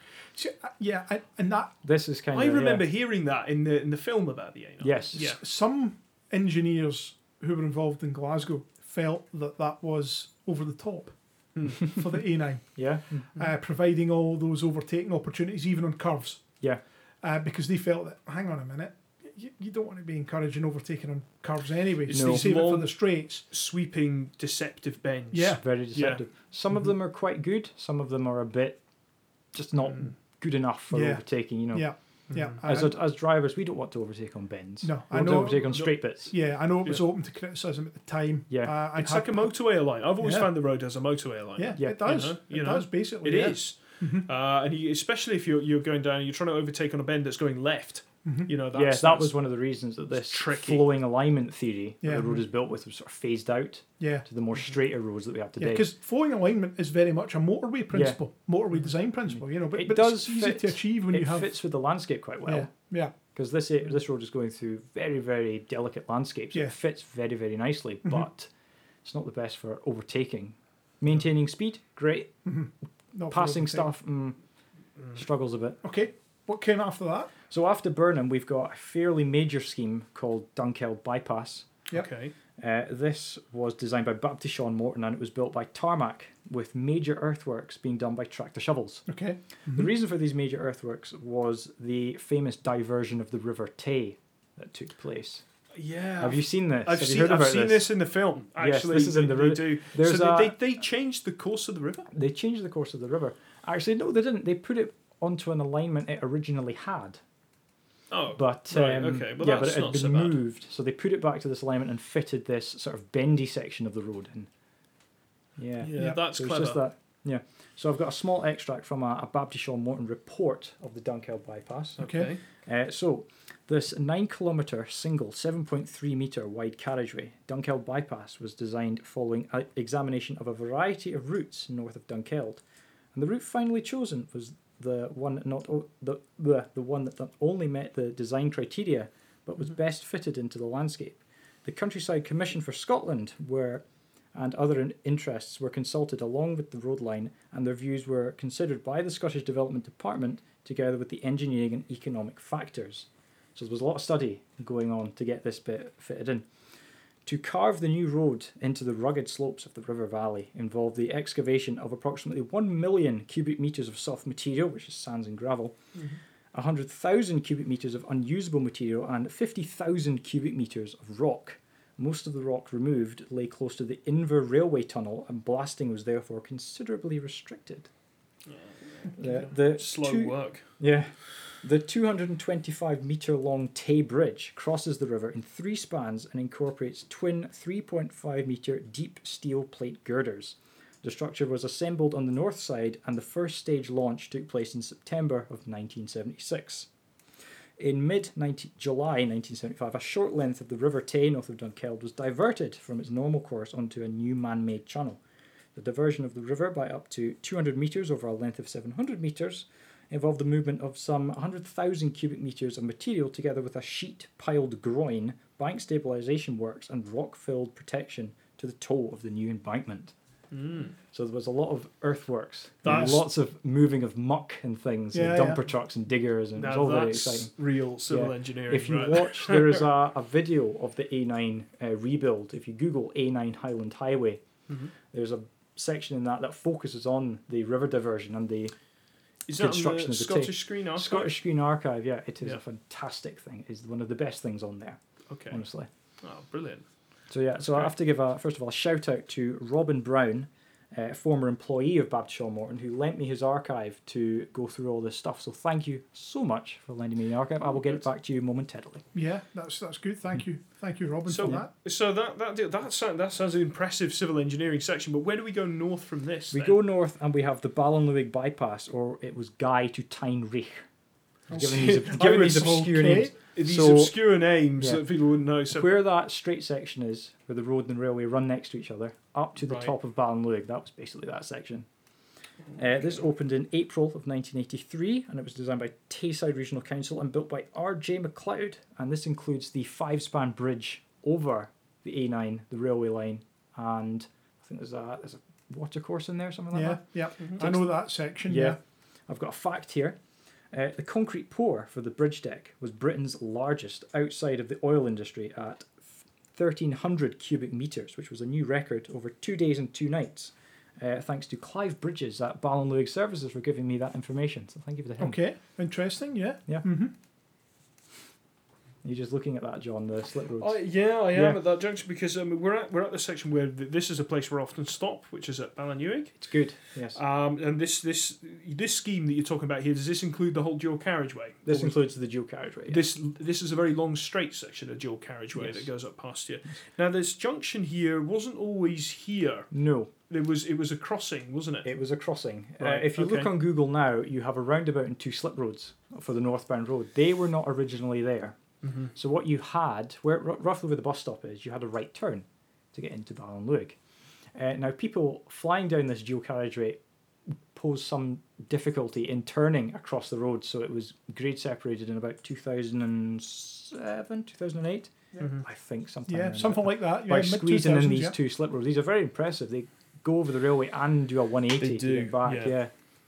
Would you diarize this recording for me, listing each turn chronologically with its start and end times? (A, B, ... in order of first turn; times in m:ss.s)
0:00.4-0:01.7 A
0:01.8-0:02.9 B
0:02.3-0:05.4 C
0:04.8-0:05.4 B
0:05.3-0:11.2 A
0:11.6-0:11.8 C
0:11.7-0:12.8 A
0:12.8-0:13.3 B
0:13.3-0:16.4 A
0:17.2-0:23.4 A
0:22.1-0:26.2 C
0:22.1-0:22.5 B
0:25.3-0:25.6 A
0:25.6-0:28.8 B
0:29.5-0:31.9 B
0:30.9-0:33.0 A
0:32.3-0:32.6 C
0:32.6-0:36.3 B
0:34.8-0:39.5 A
0:38.9-0:49.4 C
0:40.2-0:40.5 A
0:41.6-0:44.3 A
0:41.8-0:42.1 B
0:48.2-0:48.5 A
0:48.7-0:55.9 B
0:50.1-0:50.9 C
0:52.0-0:52.4 A
0:54.0-0:54.3 A
0:55.6-1:01.5 A
0:57.9-0:58.2 B
0:59.7-1:02.7 B
1:02.4-1:03.1 A
1:03.3-1:08.5 B
1:09.0-1:12.3 B
1:12.4-1:13.9 A
1:13.3-1:14.4 B
1:15.2-1:15.8 B
1:15.8-1:17.3 A
1:17.5-1:21.7 B
1:21.9-1:22.3 C
1:22.6-1:29.1 B
1:29.1-1:29.9 A
1:29.7-1:35.4 B
1:35.7-1:42.1 C
1:36.2-1:37.9 B
1:38.6-1:40.6 B
1:42.1-1:47.2 B
1:48.1-1:50.4 C
1:48.4-1:54.5 B
1:55.6-2:02.0 B
1:55.8-1:56.8 C
1:56.0-1:56.2 A
2:02.0-2:02.4 C
2:02.0-2:02.4 A
2:02.6-2:12.6 B
2:13.1-2:23.8 B
2:24.3-2:36.5 B
2:37.2-2:45.8 B
2:46.5-2:57.9 B
2:59.0-3:00.6 C
2:59.2-3:16.9 B
3:17.8-3:25.2 B
3:25.8-3:40.1 B
3:40.5-3:40.9 C
3:41.1-3:47.5 B
3:42.8-3:43.2 C
3:42.8-3:43.1 A
3:45.1-3:45.6 A
3:46.6-3:49.8 C
3:48.1-3:54.4 B
3:55.1-3:58.7 B
3:59.5-4:01.4 C
3:59.5-4:05.9 B
4:05.3-4:05.6 C
4:06.2-4:06.8 C
4:07.3-4:19.0 B
4:07.6-4:07.9 C
4:19.1-4:21.7 A
4:21.3-4:26.8 C
4:26.5-4:30.8 B
4:31.5-4:33.3 A
4:31.5-4:34.2 B
4:31.6-4:36.0 C
4:35.7-4:41.9 B
4:39.6-4:39.9 C
4:42.8-4:57.9 B
4:56.7-4:58.8 A
4:58.4-4:58.8 B
4:59.3-5:00.2 B
5:00.7-5:05.9 B
5:06.5-5:15.4 B
5:15.2-5:17.1 A
5:19.0-5:20.8 B
5:20.6-5:26.4 C
5:21.3-5:21.6 B
5:26.4-5:27.2 B
5:27.0-5:32.0 C
5:31.7-5:33.0 B
5:32.9-5:39.7 C
5:35.6-5:35.9 B
5:39.7-5:40.1 B
5:40.3-5:41.9 C
5:41.8-5:48.6 B
5:42.8-5:43.5 C
5:48.8-5:49.1 C
5:49.1-5:54.0 B
5:54.6-6:12.9 B
6:06.3-6:08.4 A
6:11.8-6:12.8 C